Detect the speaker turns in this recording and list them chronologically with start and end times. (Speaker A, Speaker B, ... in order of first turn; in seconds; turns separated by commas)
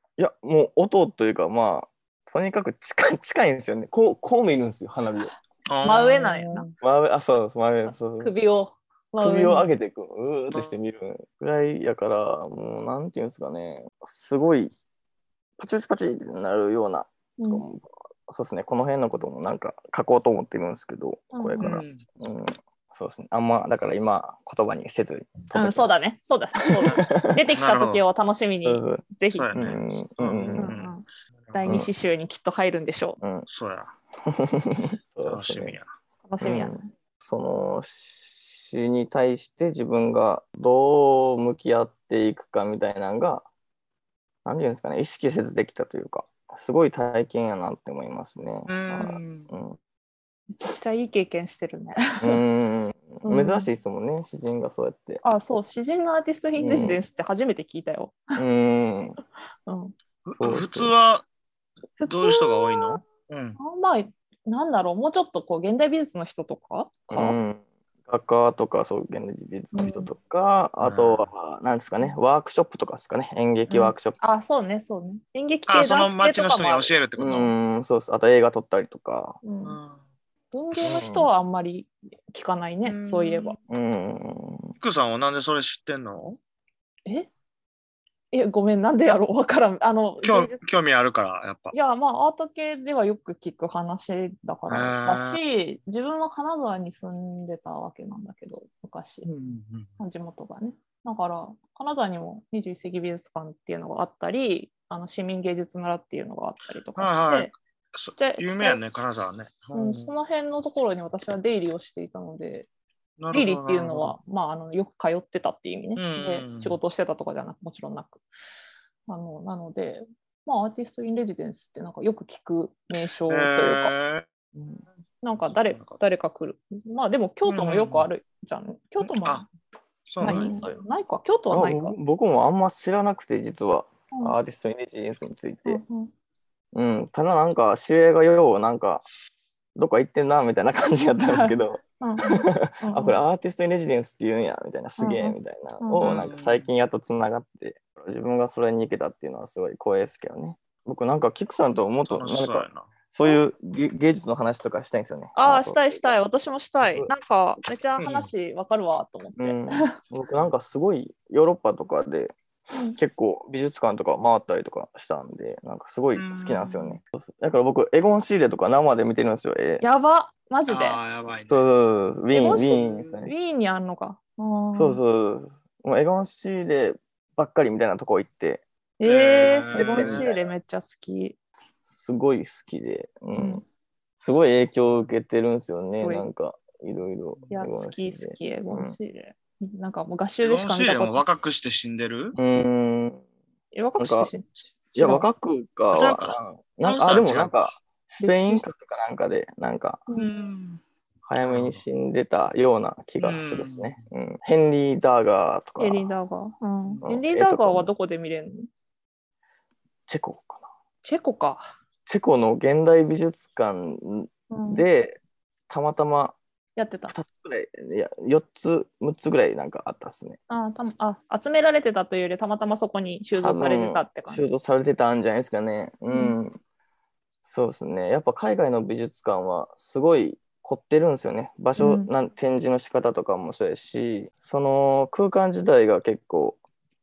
Speaker A: 0.2-5.3, Speaker B: 5.7-6.8, Speaker C: 5.8-6.7, Speaker A: 6.8-8.3, Speaker C: 7.9-9.7, Speaker A: 9.2-14.7, Speaker A: 15.6-27.4, Speaker C: 17.4-17.6, Speaker C: 21.3-21.7, Speaker B: 21.6-22.1, Speaker C: 25.5-29.5, Speaker B: 27.6-28.0, Speaker A: 28.6-30.7, Speaker B: 29.4-30.9, Speaker C: 30.6-33.2, Speaker B: 31.5-31.8, Speaker A: 33.2-33.5, Speaker B: 33.5-33.9, Speaker A: 34.3-35.8, Speaker B: 35.2-35.9, Speaker C: 36.2-36.9, Speaker A: 36.4-43.5, Speaker A: 44.5-49.8, Speaker B: 48.7-49.5, Speaker C: 50.5-52.4, Speaker A: 52.2-55.2, Speaker C: 53.2-53.7, Speaker C: 55.2-58.3, Speaker A: 56.6-57.0, Speaker A: 58.4-59.2, Speaker C: 59.7-60.0, Speaker B: 60.2-61.3, Speaker A: 60.4-60.9, Speaker C: 62.0-63.0, Speaker B: 62.0-63.6, Speaker C: 63.6-67.4, Speaker A: 67.1-74.2, Speaker C: 69.7-70.1, Speaker B: 70.8-71.3, Speaker C: 73.7-77.1, Speaker B: 75.7-77.5, Speaker A: 77.2-79.4, Speaker C: 79.4-79.8, Speaker B: 79.6-80.0, Speaker C: 80.5-83.6, Speaker A: 80.8-81.3, Speaker B: 82.8-83.6, Speaker A: 83.7-84.7, Speaker B: 84.8-86.4, Speaker C: 88.3-90.6, Speaker B: 90.2-91.7, Speaker C: 91.7-99.3, Speaker B: 94.7-95.4, Speaker B: 99.2-99.9, Speaker C: 100.0-107.5, Speaker B: 107.0-110.1, Speaker C: 108.1-108.8, Speaker C: 109.7-112.7, Speaker B: 113.2-114.2, Speaker C: 113.3-118.2, Speaker B: 116.0-116.8, Speaker C: 119.1-123.9, Speaker B: 123.3-124.3, Speaker A: 124.6-124.8, Speaker C: 125.2-129.5, Speaker B: 125.4-126.0, Speaker B: 127.5-128.1, Speaker B: 129.0-129.5, Speaker B: 130.1-130.8, Speaker A: 130.2-130.7, Speaker C: 130.2-132.0, Speaker A: 131.5-135.8, Speaker C: 134.1-134.4, Speaker C: 135.7-136.1, Speaker A: 136.7-139.1, Speaker A: 139.8-156.2, Speaker C: 141.2-143.2, Speaker C: 145.0-146.2, Speaker B: 146.0-146.7, Speaker B: 152.0-152.9, Speaker C: 155.3-159.9, Speaker A: 156.8-157.1, Speaker B: 158.0-158.3, Speaker A: 159.4-162.3, Speaker C: 162.7-163.0, Speaker A: 162.9-169.8, Speaker B: 166.1-166.7, Speaker C: 166.7-167.0, Speaker C: 169.8-171.0, Speaker B: 170.7-171.7, Speaker A: 171.5-173.3, Speaker C: 172.3-175.0, Speaker B: 172.9-173.2, Speaker A: 174.7-178.7, Speaker C: 179.0-181.4, Speaker B: 179.0-180.3, Speaker A: 179.7-180.5, Speaker A: 181.9-183.6, Speaker C: 183.3-183.6, Speaker A: 184.2-189.0, Speaker C: 185.9-186.3, Speaker C: 187.5-191.2, Speaker B: 190.4-192.4, Speaker A: 192.4-193.2, Speaker C: 193.7-195.3, Speaker A: 194.0-194.3, Speaker A: 194.9-200.0, Speaker B: 195.9-197.8, Speaker C: 198.2-198.7, Speaker B: 200.1-200.8, Speaker A: 201.3-206.1, Speaker B: 201.4-201.8, Speaker B: 203.2-204.0, Speaker C: 205.8-208.7, Speaker A: 207.0-207.9, Speaker A: 210.1-210.7, Speaker C: 211.0-211.7, Speaker A: 212.1-215.2, Speaker C: 214.5-214.9, Speaker A: 215.7-216.4, Speaker C: 216.8-217.2, Speaker A: 217.1-220.4, Speaker C: 220.5-224.4, Speaker A: 223.3-226.6, Speaker C: 226.1-226.4, Speaker A: 227.5-236.6, Speaker C: 231.8-232.1